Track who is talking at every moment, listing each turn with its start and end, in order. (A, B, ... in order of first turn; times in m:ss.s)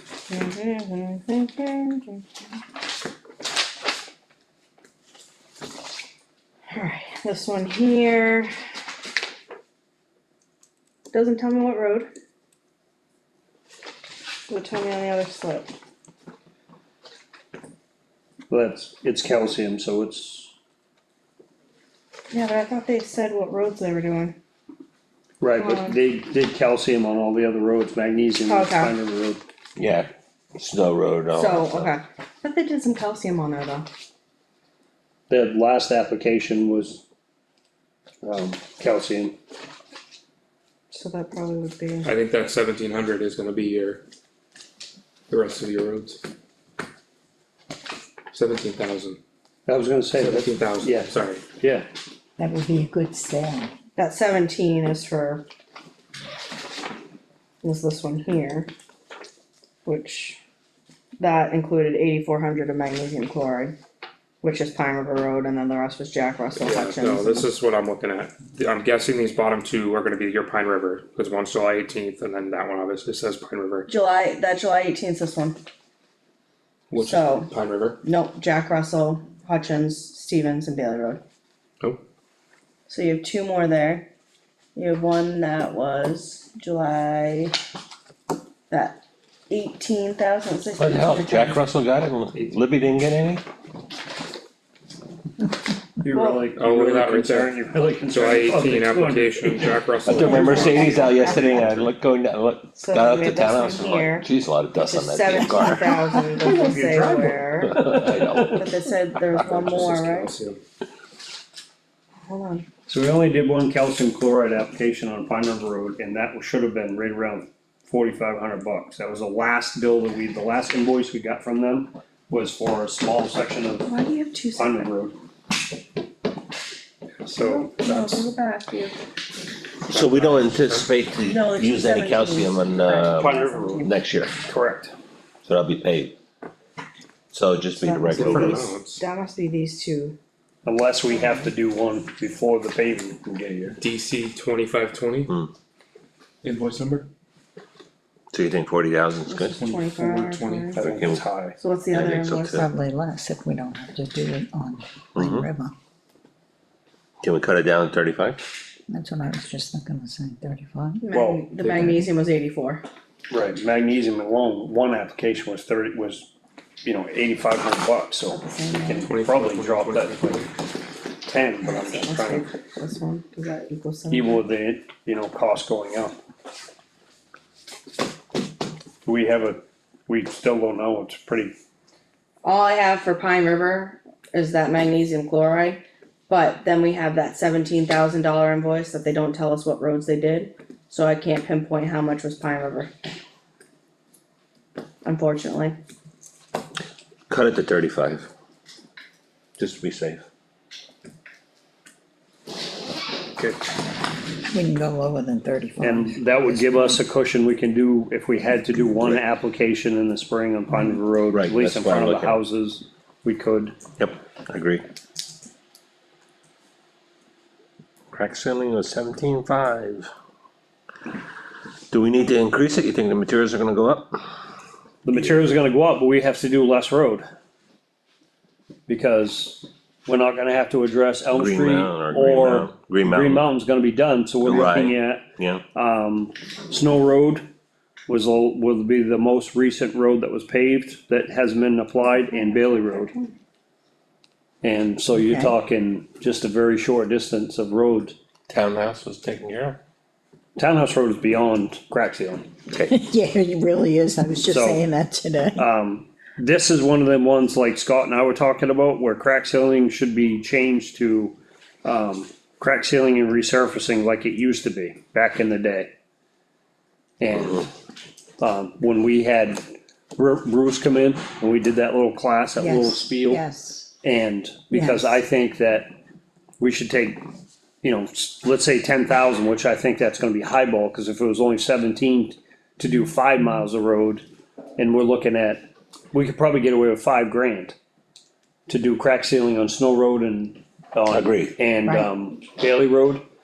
0:00.3-0:02.2 A
0:06.7-0:08.5 A
0:11.1-0:12.1 A
0:14.5-0:15.7 A
0:18.5-0:20.5 B
0:22.3-0:24.4 A
0:25.4-0:29.4 B
0:25.6-0:26.0 A
0:28.4-0:29.0 A
0:29.8-0:31.9 C
0:31.3-0:33.9 A
0:35.3-0:37.0 B
0:38.2-0:39.4 B
0:40.9-0:42.1 A
0:42.0-0:44.0 D
0:45.3-0:46.2 D
0:48.3-0:49.2 D
0:49.7-0:51.9 B
0:50.2-0:51.5 D
0:52.4-0:53.7 E
0:54.0-0:55.5 A
0:57.6-0:58.7 A
0:59.8-1:00.4 A
1:01.2-1:03.8 A
1:04.4-1:07.5 A
1:06.6-1:13.9 D
1:13.9-1:15.6 A
1:16.9-1:18.0 D
1:17.0-1:17.5 A
1:18.0-1:21.2 A
1:22.9-1:24.1 A
1:24.8-1:27.6 A
1:28.7-1:31.6 A
1:30.8-1:33.4 C
1:36.0-1:41.0 B
1:36.1-1:36.5 A
1:36.6-1:41.1 D
1:40.1-1:46.0 C
1:40.1-1:41.6 A
1:42.8-1:44.3 A
1:44.8-1:50.3 A
1:46.4-1:47.4 B
1:47.6-1:48.7 C
1:49.4-1:50.6 D
1:52.3-1:52.7 A
1:52.9-2:03.9 B
2:03.8-2:04.9 A
2:04.6-2:05.2 B
2:07.3-2:07.7 D
2:07.3-2:09.0 A
2:07.8-2:08.1 B
2:09.9-2:14.4 C
2:09.9-2:10.9 D
2:11.2-2:13.9 A
2:13.2-2:13.9 B
2:14.5-2:14.9 B
2:15.4-2:16.2 C
2:17.3-2:18.7 C
2:17.8-2:20.2 A
2:18.1-2:19.0 D
2:20.6-2:23.8 B
2:21.2-2:21.5 A
2:23.8-2:25.3 D
2:26.4-2:27.1 D
2:28.3-2:29.6 C
2:29.3-2:30.8 A
2:29.6-2:30.9 D
2:30.8-2:31.6 B
2:30.8-2:31.2 C
2:31.6-2:32.6 A
2:31.9-2:32.7 C
2:32.5-2:35.7 E
2:35.2-2:35.5 C
2:37.2-2:38.4 C
2:38.9-2:41.0 E
2:41.0-2:42.8 A
2:41.1-2:41.5 B
2:41.6-2:41.9 D
2:41.8-2:42.0 E
2:43.3-2:46.3 B
2:46.8-2:50.5 B
2:48.3-2:49.1 A
2:49.1-2:50.5 D
2:51.2-2:52.5 B
2:51.6-2:54.5 A
2:54.1-2:56.2 B
2:59.0-3:01.5 B
3:02.4-3:12.9 A
3:15.0-3:15.8 A
3:17.3-3:18.3 C
3:19.6-3:20.2 C
3:24.5-3:27.0 E
3:25.8-3:33.8 B
3:31.3-3:32.4 C
3:34.0-3:34.8 C
3:38.1-3:40.1 C
3:41.9-3:44.2 C
3:45.0-3:47.2 B
3:48.9-3:55.2 B
3:51.3-3:53.5 C
3:54.4-3:55.6 C
3:55.8-3:57.5 B
3:58.1-4:03.1 B
4:02.0-4:03.3 A
4:04.6-4:08.2 B
4:05.2-4:05.5 E
4:08.5-4:09.8 C
4:10.6-4:12.5 B
4:12.9-4:15.7 E
4:14.5-4:14.8 B
4:15.6-4:25.9 B
4:27.2-4:27.7 B
4:28.4-4:29.6 B
4:30.2-4:33.4 B
4:32.6-4:33.9 E
4:34.0-4:35.9 B
4:34.7-4:35.2 E
4:36.6-4:37.2 B
4:37.8-4:44.3 B
4:44.8-4:47.8 B
4:48.7-4:53.2 B
4:51.1-4:51.6 C